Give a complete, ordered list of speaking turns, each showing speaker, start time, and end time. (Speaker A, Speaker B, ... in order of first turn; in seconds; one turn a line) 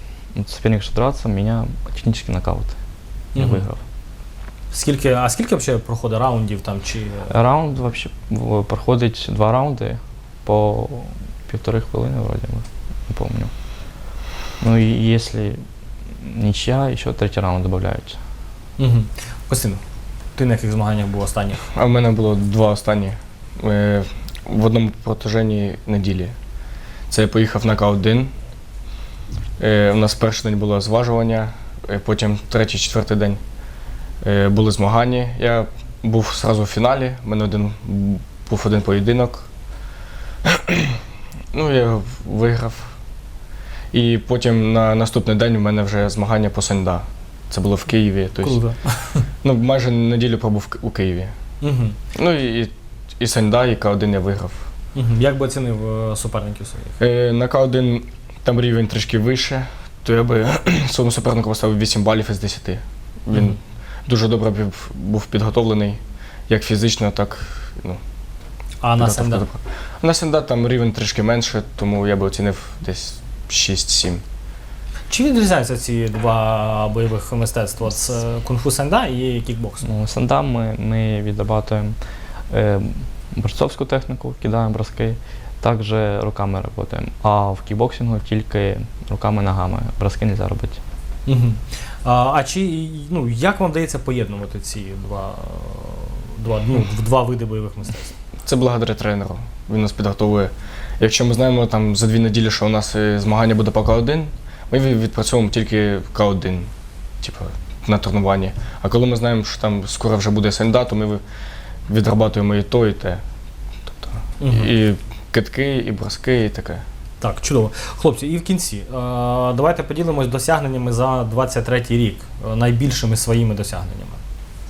Speaker A: 0.3-2.8
Speaker B: 3.4-3.6
Speaker A: 3.4-3.8
Speaker B: 4.7-7.3
Speaker A: 7.3-13.5
Speaker A: 14.6-15.6
Speaker A: 16.2-18.2
Speaker B: 18.8-19.8
Speaker B: 20.4-21.6
Speaker C: 21.7-26.3
Speaker C: 27.1-28.3
Speaker C: 29.6-33.4
Speaker C: 34.2-39.5
Speaker C: 40.5-41.0
Speaker C: 41.5-42.9
Speaker C: 43.9-48.6
Speaker B: 48.4-49.3
Speaker C: 49.4-51.3
Speaker B: 51.6-52.0
Speaker C: 52.1-54.6
Speaker B: 55.0-56.9
Speaker C: 57.0-68.0
Speaker B: 63.3-63.6
Speaker B: 68.8-69.5
Speaker C: 69.0-74.2
Speaker B: 75.1-79.9
Speaker A: 79.8-82.0
Speaker A: 82.5-90.8
Speaker B: 91.3-98.1
Speaker C: 98.5-106.7
Speaker C: 107.2-111.2
Speaker C: 111.9-113.2
Speaker C: 113.9-116.8
Speaker B: 114.4-114.7
Speaker B: 117.2-124.2